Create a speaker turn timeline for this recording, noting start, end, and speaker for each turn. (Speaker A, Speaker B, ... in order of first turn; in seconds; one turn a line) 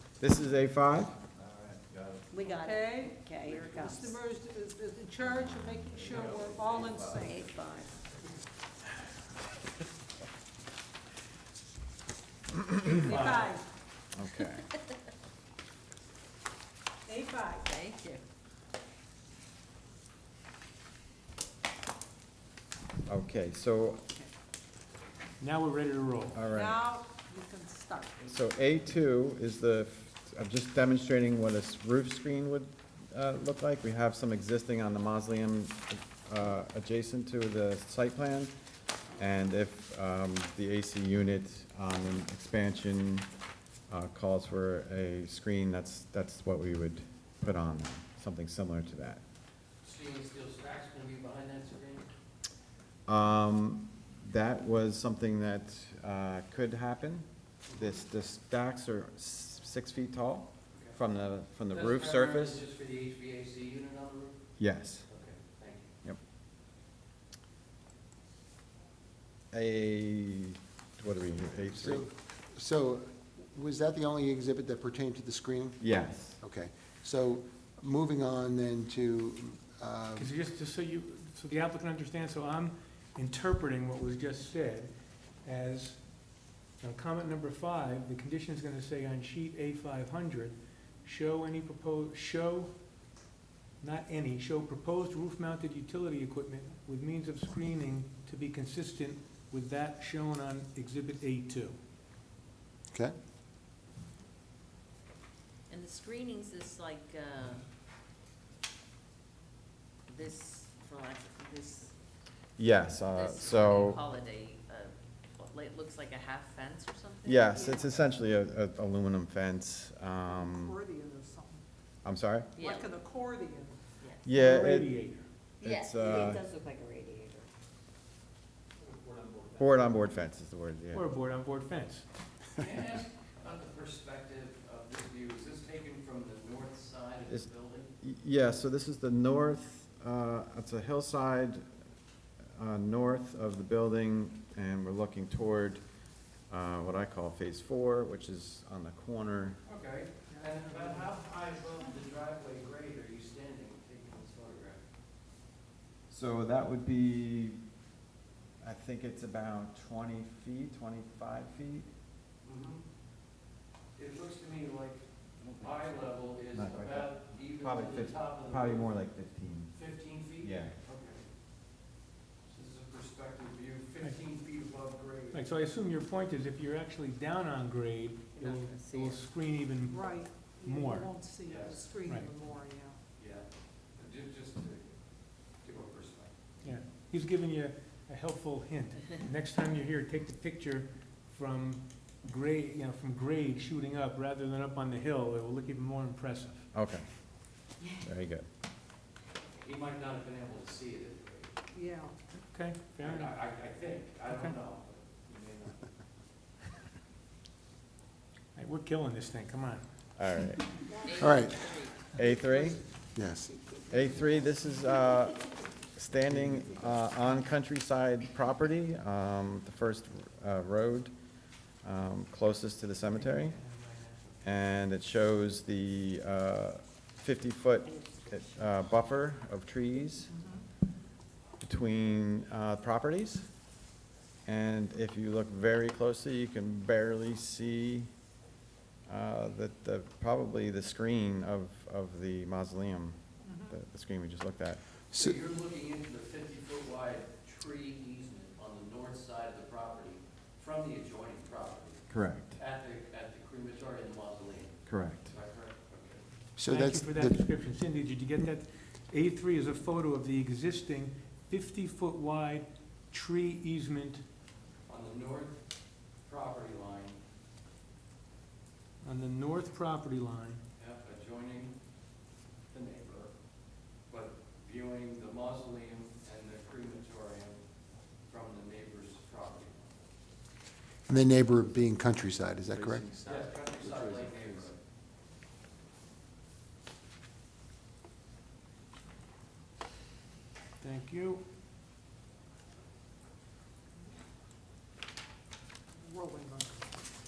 Speaker A: 0.2-2.3
Speaker B: 2.3-4.1
Speaker C: 2.4-7.5
Speaker A: 5.2-7.2
Speaker B: 7.2-7.9
Speaker A: 12.7-13.3
Speaker C: 12.9-13.6
Speaker A: 14.1-14.7
Speaker C: 17.1-17.7
Speaker B: 17.6-18.2
Speaker A: 23.1-24.1
Speaker D: 25.4-26.4
Speaker A: 26.3-26.8
Speaker C: 26.5-28.2
Speaker A: 28.2-38.5
Speaker A: 39.1-43.3
Speaker A: 43.9-49.2
Speaker E: 49.8-52.1
Speaker A: 53.0-62.6
Speaker E: 57.7-57.9
Speaker E: 60.7-61.0
Speaker E: 61.7-64.4
Speaker A: 64.6-65.0
Speaker E: 65.1-65.9
Speaker A: 69.5-72.1
Speaker F: 71.7-75.8
Speaker A: 75.8-76.4
Speaker F: 76.4-80.3
Speaker D: 80.2-84.9
Speaker D: 85.4-86.0
Speaker D: 86.8-92.7
Speaker D: 93.8-101.8
Speaker B: 105.7-107.6
Speaker B: 110.1-111.9
Speaker A: 112.6-114.0
Speaker B: 113.0-117.7
Speaker A: 117.2-120.8
Speaker C: 117.5-118.0
Speaker C: 120.2-121.6
Speaker A: 122.0-122.5
Speaker B: 122.5-122.9
Speaker C: 122.6-123.8
Speaker B: 124.0-124.3
Speaker A: 124.2-124.9
Speaker D: 124.3-125.2
Speaker B: 125.6-127.5
Speaker A: 125.6-126.4
Speaker E: 128.8-129.6
Speaker A: 129.6-131.1
Speaker D: 130.9-132.0
Speaker E: 132.6-137.9
Speaker A: 138.0-141.6
Speaker A: 142.5-145.8
Speaker A: 146.5-149.6
Speaker E: 149.7-154.8
Speaker C: 150.3-151.1
Speaker A: 156.1-157.6
Speaker A: 158.6-161.9
Speaker E: 162.4-162.8
Speaker E: 163.9-168.9
Speaker A: 166.5-169.7
Speaker E: 169.7-171.3
Speaker A: 170.4-170.8
Speaker E: 172.5-175.4
Speaker D: 175.3-181.1
Speaker B: 178.4-179.2
Speaker C: 179.8-183.0
Speaker E: 181.4-181.9
Speaker E: 183.2-184.9
Speaker E: 185.6-186.3
Speaker D: 186.6-196.7
Speaker A: 196.7-197.1
Speaker B: 197.8-198.1
Speaker A: 198.0-198.4
Speaker E: 199.5-201.5
Speaker C: 201.7-202.1
Speaker D: 202.4-203.3
Speaker E: 203.0-205.9
Speaker D: 208.6-209.8
Speaker A: 210.2-210.9
Speaker B: 211.0-212.2
Speaker F: 211.2-211.6
Speaker A: 212.0-212.8
Speaker F: 213.1-213.6
Speaker A: 213.9-221.1
Speaker A: 221.8-223.6
Speaker A: 224.4-230.3
Speaker B: 227.9-228.5
Speaker C: 230.3-230.6
Speaker A: 231.6-233.5
Speaker A: 234.4-238.1
Speaker A: 239.1-244.8
Speaker C: 243.4-243.7
Speaker E: 245.1-256.2
Speaker A: 252.1-252.6
Speaker A: 254.9-255.3
Speaker F: 256.6-257.4
Speaker D: 256.7-264.2
Speaker E: 264.9-265.6
Speaker E: 266.2-267.2
Speaker D: 269.0-270.6
Speaker E: 270.8-271.7
Speaker E: 272.7-273.3
Speaker E: 274.1-277.6
Speaker E: 278.3-280.0
Speaker F: 281.1-284.5
Speaker E: 283.2-284.8
Speaker D: 290.8-291.4
Speaker C: 296.0-296.8